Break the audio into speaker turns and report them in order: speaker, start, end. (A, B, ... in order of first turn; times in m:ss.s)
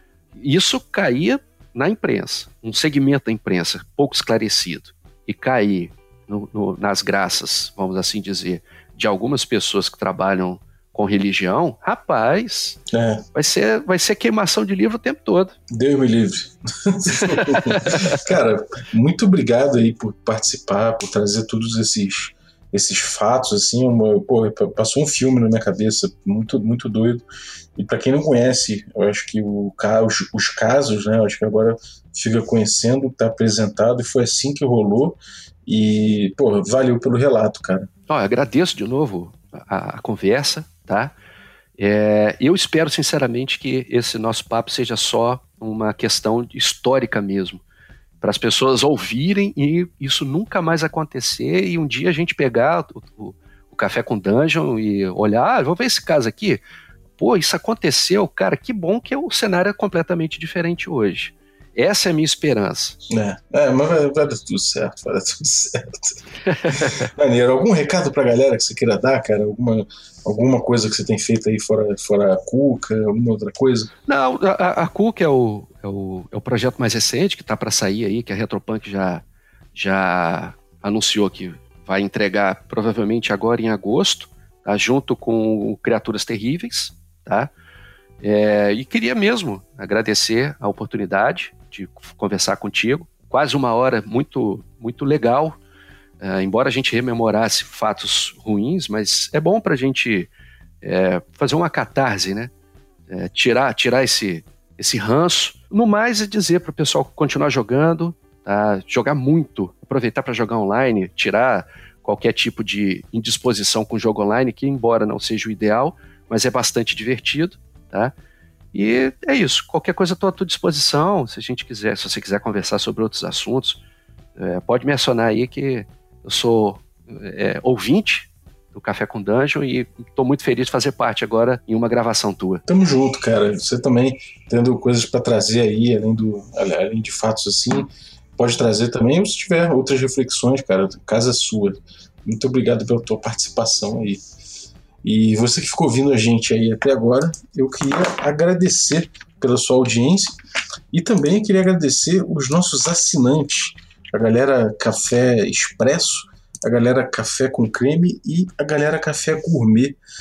0:00.4-0:12.8 A
0:12.9-0:13.2 B
0:13.3-0:15.6 A
0:15.7-0:27.2 B
0:17.1-0:18.2 A
0:27.8-0:37.9 B
0:38.1-0:41.1 A
0:41.8-0:47.6 A
0:48.2-0:56.6 A
0:57.2-1:03.0 A
1:03.1-1:13.9 B
1:06.4-1:07.0 A
1:14.1-1:27.5 A
1:28.2-1:35.6 A
1:36.2-1:40.3 A
1:40.8-1:42.5 A
1:43.1-1:58.1 A
1:58.7-2:03.8 A
2:04.4-2:12.6 A
2:12.7-2:24.2 B
2:25.0-2:30.4 B
2:30.9-2:40.0 B